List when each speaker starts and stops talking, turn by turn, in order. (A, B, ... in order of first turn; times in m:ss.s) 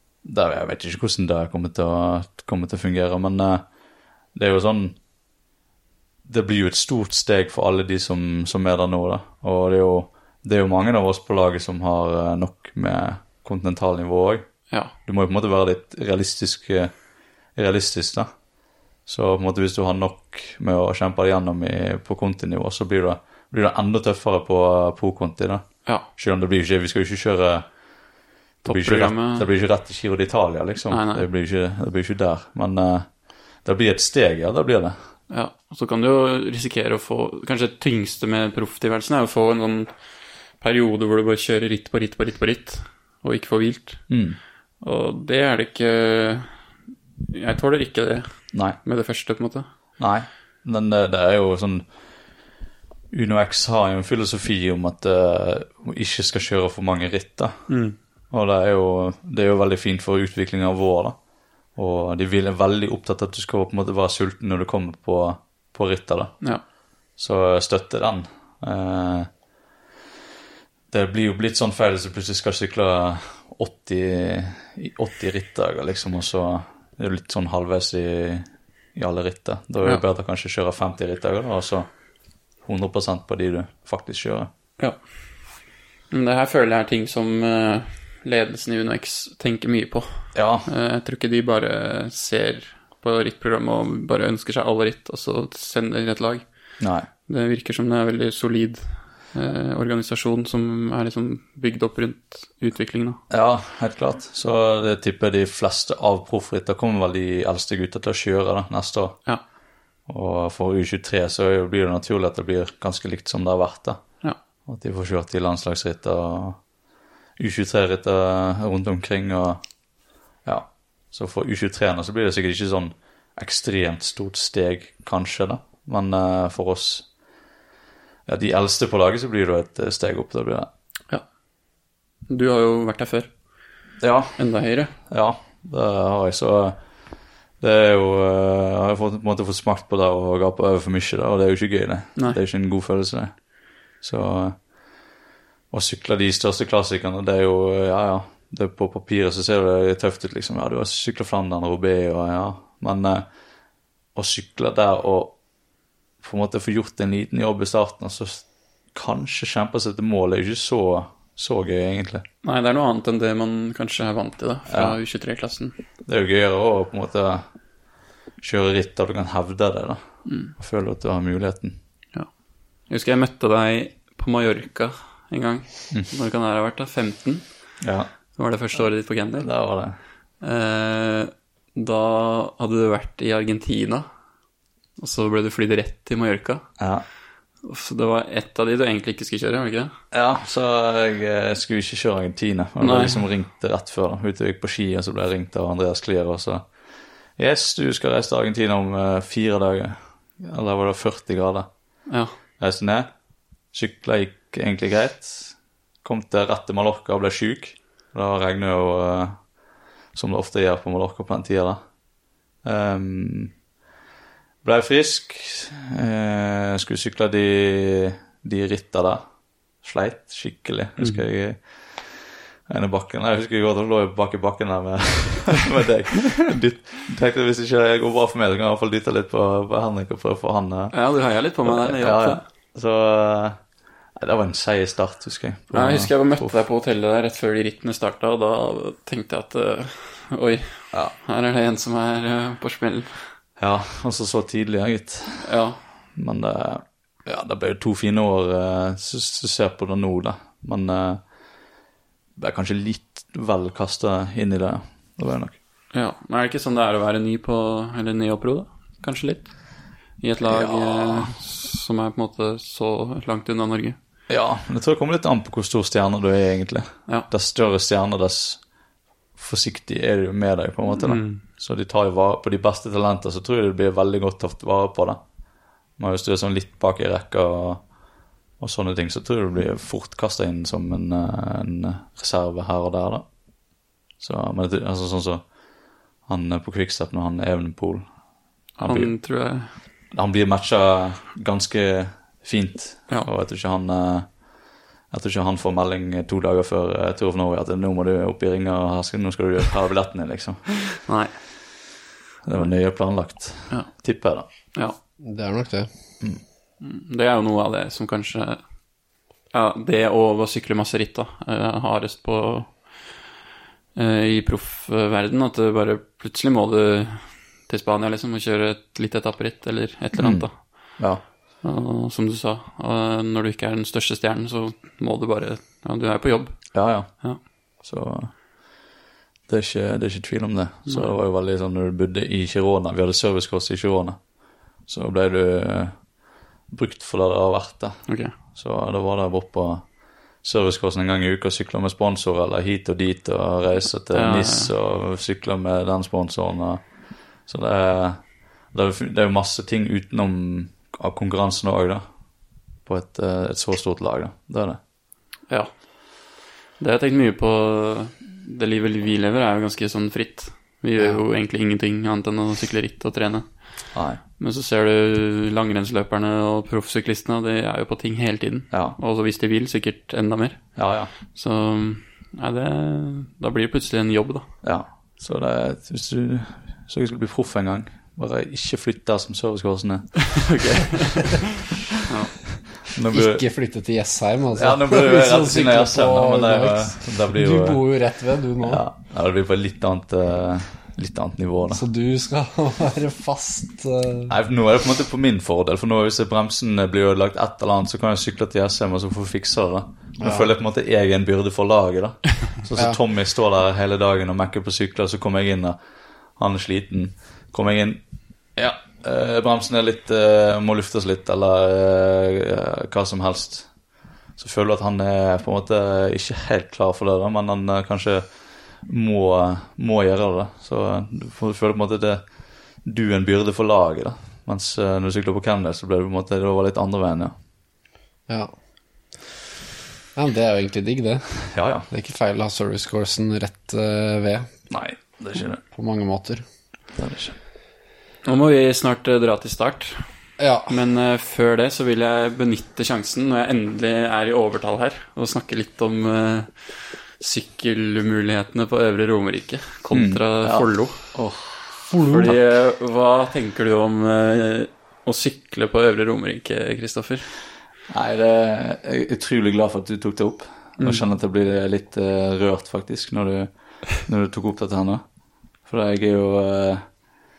0:00.2-0:03.6 A
0:04.4-0:05.0 A
0:06.2-0:14.5 A
0:15.1-0:16.9 A
0:17.6-0:18.3 A
0:19.1-0:25.6 A
0:26.2-0:27.6 A
0:28.6-0:29.5 B
0:28.6-0:33.1 A
0:30.9-0:31.3 B
0:33.6-0:35.0 A
0:35.3-0:39.9 B
0:40.6-0:44.0 B
0:44.1-0:44.4 A
0:44.8-0:46.5 B
0:47.2-0:48.3 B
0:48.8-0:49.7 B
0:50.0-0:51.9 A
0:53.1-0:57.5 A
0:57.7-0:58.0 B
0:58.3-1:01.2 A
1:01.8-1:06.4 A
1:07.2-1:09.3 A
1:10.9-1:21.9 A
1:22.6-1:24.5 A
1:26.1-1:36.4 B
1:30.4-1:30.7 A
1:36.8-1:37.1 A
1:37.3-1:38.8 B
1:39.3-1:43.2 B
1:43.3-1:49.2 A
1:50.1-1:54.0 A
1:54.7-1:56.6 A
1:57.4-1:59.6 A
2:00.4-2:07.1 A
2:08.3-2:10.7 A
2:12.3-2:13.3 B
2:14.0-2:14.4 A
2:14.4-2:14.9 B
2:15.1-2:16.8 A
2:17.6-2:23.3 A
2:24.0-2:24.6 A
2:25.7-2:33.2 A
2:34.2-2:35.4 A
2:36.2-2:42.2 A
2:42.4-2:45.8 B
2:44.7-2:45.0 A
2:46.0-2:47.4 A
2:48.4-2:50.0 A
2:50.3-2:50.5 B
2:50.6-2:51.8 A
2:52.9-2:57.4 B
2:57.8-2:58.1 A
2:58.4-2:59.5 B
2:59.4-3:00.0 A
3:00.4-3:04.1 B
3:05.0-3:06.6 B
3:06.8-3:07.0 A
3:07.6-3:09.9 B
3:10.1-3:16.6 A
3:12.8-3:13.2 B
3:17.4-3:21.7 A
3:22.6-3:23.1 A
3:23.7-3:29.4 A
3:30.2-3:31.8 A
3:32.6-3:33.5 A
3:34.6-3:39.2 A
3:39.8-3:42.1 A
3:42.7-3:50.9 A
3:50.9-3:52.4 B
3:51.6-3:53.6 A
3:54.2-3:56.6 A
3:55.7-4:00.7 B
4:01.2-4:03.1 B
4:03.6-4:05.5 A
4:05.4-4:05.8 B
4:06.2-4:11.2 A
4:12.4-4:15.6 A
4:15.9-4:19.5 B
4:20.2-4:24.0 B
4:20.4-4:21.3 A
4:24.3-4:28.6 A
4:29.4-4:35.2 A
4:31.0-4:31.4 B
4:36.0-4:37.8 A
4:38.6-4:43.3 A
4:44.2-4:45.5 A
4:46.3-4:48.1 A
4:48.8-4:49.7 B
4:48.8-4:49.1 A
4:50.1-4:54.3 A
4:55.1-5:00.6 A
5:00.8-5:01.3 B
5:02.4-5:04.5 A
5:05.2-5:05.9 C
5:06.8-5:08.6 B
5:09.5-5:12.8 B
5:14.0-5:20.9 B
5:20.2-5:21.2 A
5:21.6-5:26.7 B
5:26.7-5:27.1 A
5:27.8-5:28.3 A
5:29.5-5:34.2 A
5:34.9-5:36.0 A
5:36.7-5:39.9 A
5:40.4-5:46.8 A
5:44.1-5:44.7 B
5:47.5-5:52.0 A
5:52.9-5:54.8 A
5:56.8-6:03.5 B
6:03.9-6:04.2 A
6:04.4-6:10.6 B
6:10.8-6:11.1 A
6:11.3-6:14.5 B
6:14.6-6:20.4 A
6:20.3-6:22.3 B
6:22.8-6:23.4 A
6:23.1-6:28.8 C
6:24.6-6:27.8 A
6:28.6-6:31.8 A
6:31.7-6:34.3 C
6:34.3-6:45.8 A
6:40.2-6:40.5 C
6:46.4-6:48.0 A
6:48.6-6:53.7 A
6:54.4-6:58.2 A
6:58.9-7:02.2 A
7:02.8-7:07.3 A
7:10.2-7:11.3 C
7:11.5-7:11.9 A
7:11.9-7:14.5 C
7:14.7-7:15.6 A
7:15.7-7:16.4 C
7:17.0-7:17.4 A
7:18.2-7:20.0 B
7:20.4-7:20.8 C
7:20.7-7:26.5 B
7:27.2-7:31.0 B
7:29.9-7:32.4 A
7:31.9-7:32.3 C
7:32.1-7:37.3 B
7:37.9-7:45.0 A
7:45.7-7:46.8 A